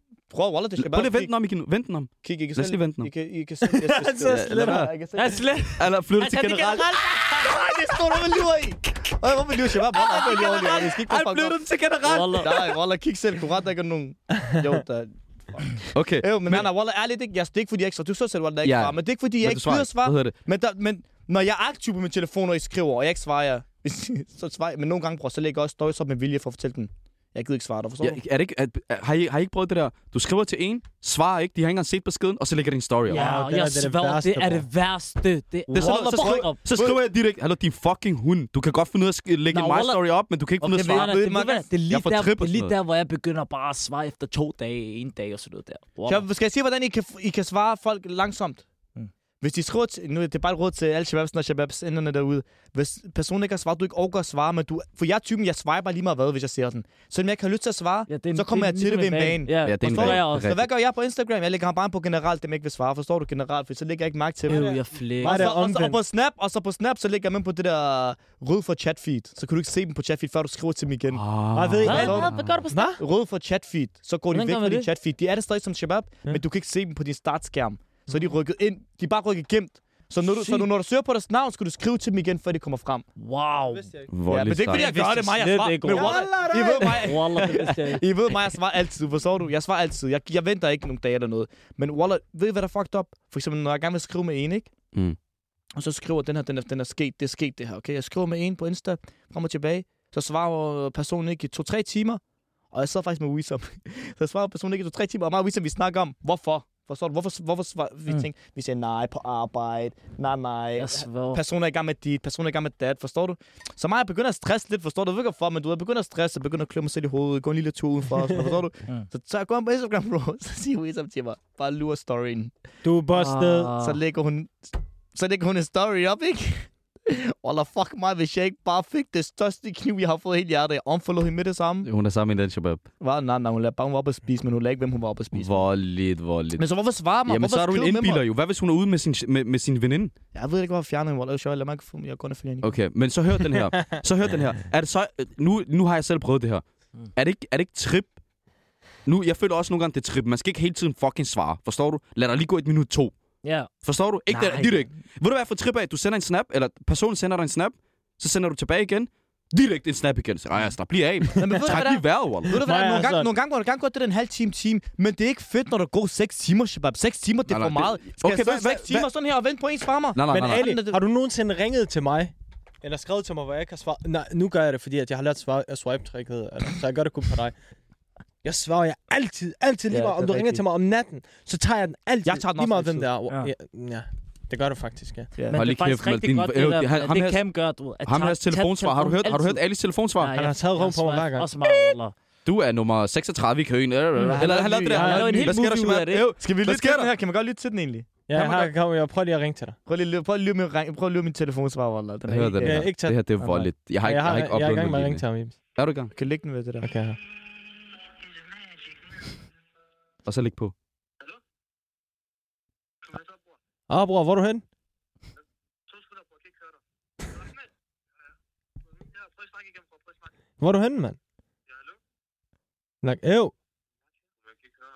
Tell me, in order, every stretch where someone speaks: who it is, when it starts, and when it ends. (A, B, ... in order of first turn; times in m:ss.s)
0:00.3-0:01.3 A
0:00.8-0:03.1 B
0:02.2-0:05.4 A
0:03.6-0:04.9 C
0:04.2-0:04.9 B
0:05.1-0:07.6 D
0:05.8-0:06.9 B
0:07.3-0:11.6 A
0:09.9-0:11.0 D
0:10.3-0:12.6 B
0:12.0-0:12.7 D
0:12.4-0:28.2 A
0:15.9-0:16.7 B
0:18.6-0:20.3 B
0:28.0-0:33.2 B
0:33.1-0:36.6 D
0:33.1-0:34.6 C
0:35.7-0:37.0 A
0:35.7-0:41.1 B
0:39.5-0:40.0 D
0:40.6-0:41.7 A
0:40.6-0:46.2 D
0:41.9-0:42.7 B
0:46.0-0:48.6 A
0:49.4-1:04.7 A
0:58.1-1:00.5 D
0:59.6-1:00.7 B
1:04.5-1:05.5 D
1:04.5-1:06.0 C
1:05.2-1:11.2 A
1:11.1-1:12.6 B
1:11.5-1:13.0 C
1:11.8-1:13.0 D
1:11.8-1:12.3 A
1:13.0-1:23.0 A
1:14.3-1:14.9 D
1:20.4-1:20.6 D
1:23.2-1:23.9 D
1:23.7-1:24.1 C
1:24.1-1:24.9 B
1:24.3-1:34.7 A
1:24.7-1:28.0 D
1:25.4-1:28.0 C
1:35.8-1:42.2 A
1:42.7-2:02.5 A
1:50.8-1:51.4 D
2:02.8-2:03.7 C
2:03.1-2:04.0 D
2:03.8-2:11.9 A
2:11.8-2:12.8 B
2:13.0-2:15.6 A
2:15.3-2:16.6 B
2:16.6-2:18.2 A
2:17.2-2:20.1 B
2:20.3-2:22.7 A
2:22.6-2:28.1 B
2:29.0-2:33.1 B
2:33.4-2:33.7 D
2:33.8-2:42.6 B
2:34.3-2:34.9 D
2:41.4-2:51.0 A
2:42.6-2:43.3 C
2:47.5-2:49.1 B
2:50.1-2:50.8 B
2:50.3-2:57.5 C
2:58.4-3:05.3 C
2:59.9-3:00.6 A
3:02.2-3:03.1 A
3:05.5-3:09.6 D
3:05.5-3:07.4 B
3:08.0-3:10.3 B
3:10.2-3:12.1 D
3:10.4-3:11.9 C
3:12.4-3:17.1 B
3:14.3-3:15.6 A
3:14.9-3:16.3 D
3:14.9-3:15.2 C
3:16.4-3:18.7 A
3:18.3-3:19.8 C
3:19.8-3:22.9 A
3:22.3-3:25.2 B
3:22.6-3:25.5 C
3:25.8-3:26.1 B
3:26.1-3:26.9 A
3:26.8-3:27.2 C
3:30.2-3:30.7 B
3:33.9-3:34.6 C
3:40.6-3:41.2 C
3:43.0-3:43.5 C